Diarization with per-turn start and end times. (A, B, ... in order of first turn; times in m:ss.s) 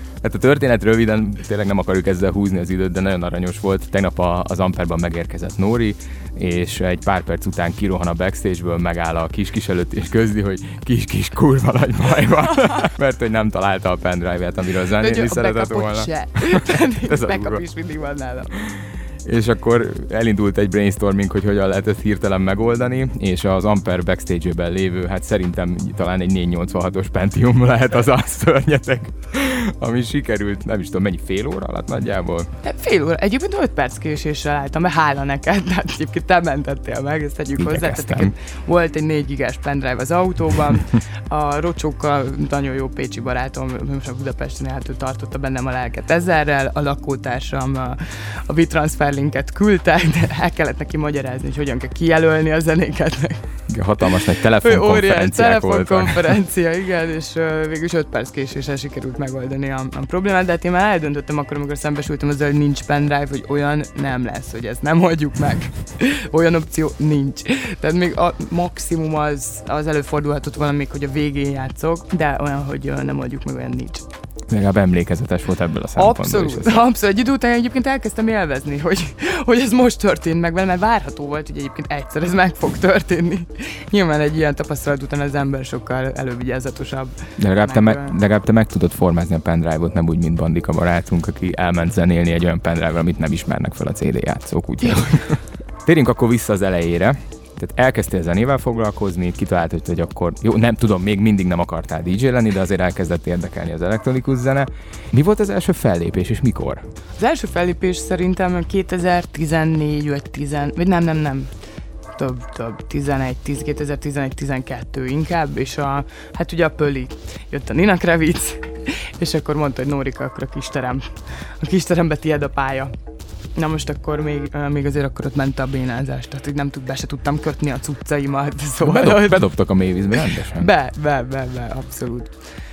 0:00.2-0:17.6 A
0:15.0-0:18.5 B
0:18.6-0:32.5 A
0:32.6-0:53.4 B
0:37.6-0:38.3 A
0:53.7-0:56.3 A
0:54.0-1:14.0 B
1:14.5-1:16.8 A
1:16.0-1:28.2 B
1:27.4-1:46.8 A
1:34.8-1:35.2 B
1:47.2-1:51.5 B
1:52.2-2:02.9 B
2:03.6-2:09.5 B
2:08.8-2:10.7 A
2:10.1-2:12.3 B